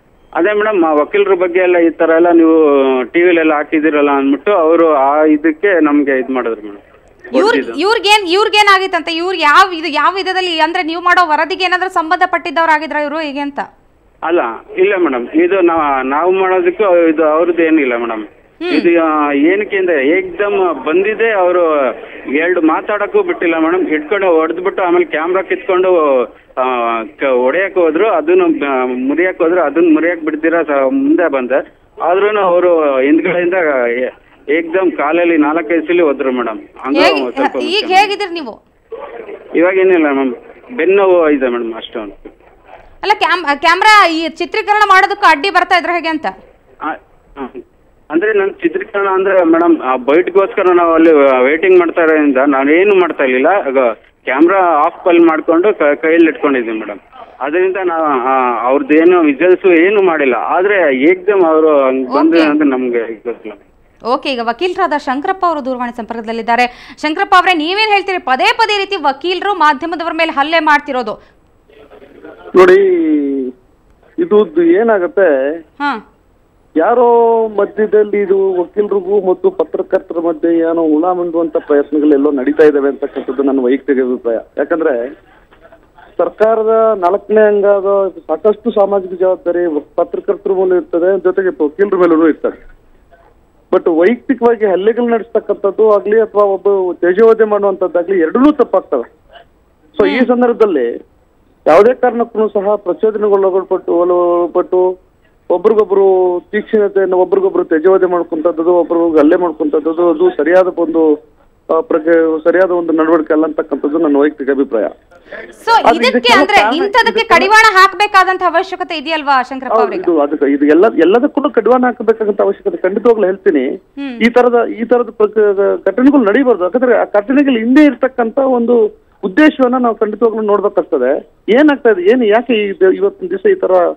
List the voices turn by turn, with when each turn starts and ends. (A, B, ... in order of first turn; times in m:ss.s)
0:00.4-0:02.5 A
0:03.1-0:07.8 A
0:07.3-0:13.6 B
0:14.3-0:21.6 A
0:18.6-0:18.9 B
0:22.4-0:25.9 A
0:26.6-0:38.1 A
0:36.9-0:38.6 B
0:39.6-0:42.3 A
0:43.0-0:46.3 B
0:46.8-1:03.6 A
1:02.1-1:02.5 B
1:04.1-1:11.2 B
1:12.5-1:13.5 C
1:14.2-1:15.3 C
1:16.8-1:24.9 C
1:26.2-1:32.6 C
1:33.7-1:39.0 C
1:40.0-1:40.9 C
1:40.0-1:40.3 B
1:41.7-1:44.8 C
1:45.5-1:51.0 C
1:51.8-1:54.9 C
1:55.6-2:00.1 B
1:55.8-1:57.5 C
1:59.7-2:03.6 C
2:04.2-2:13.8 C